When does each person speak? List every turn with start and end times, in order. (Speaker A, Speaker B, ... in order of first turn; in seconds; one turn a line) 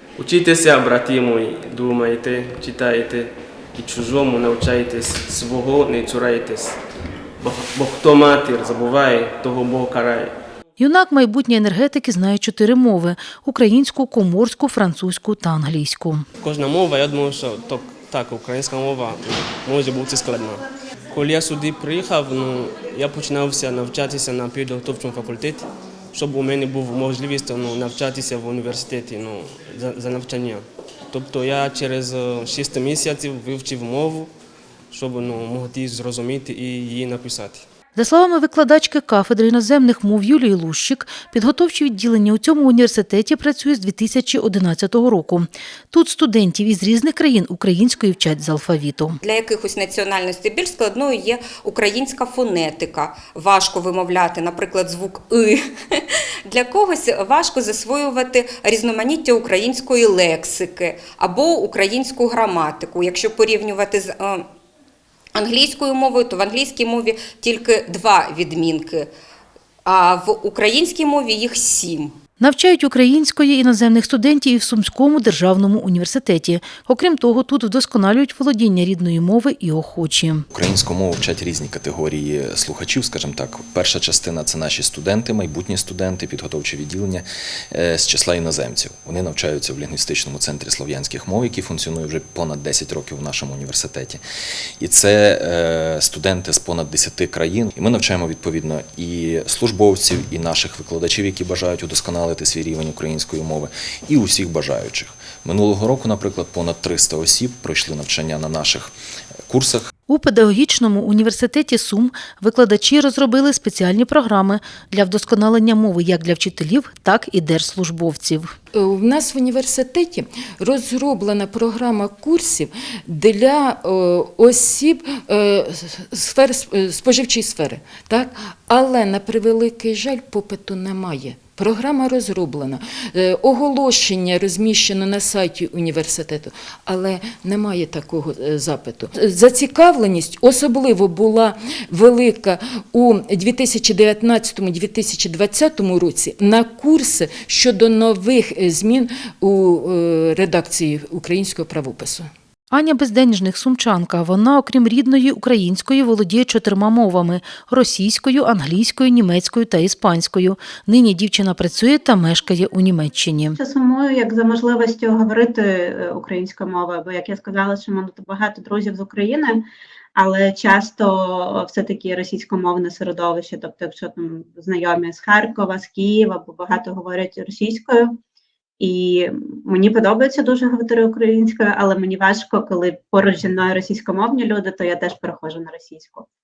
Speaker A: 0.2-6.8
Speaker A: 7.4-10.3
Speaker B: 10.8-16.2
Speaker A: 16.4-34.3
Speaker A: 34.9-37.7
Speaker B: 38.0-49.2
Speaker C: 49.2-55.6
Speaker C: 56.5-64.5
Speaker C: 65.3-69.1
Speaker C: 69.8-72.2
Speaker B: 72.4-80.5
Speaker D: 80.5-94.2
Speaker D: 94.8-108.9
Speaker D: 109.5-109.9
Speaker B: 110.1-118.5
Speaker E: 118.8-152.3
Speaker B: 152.7-163.6
Speaker F: 163.6-169.7
Speaker F: 170.2-178.2
Speaker F: 178.8-186.3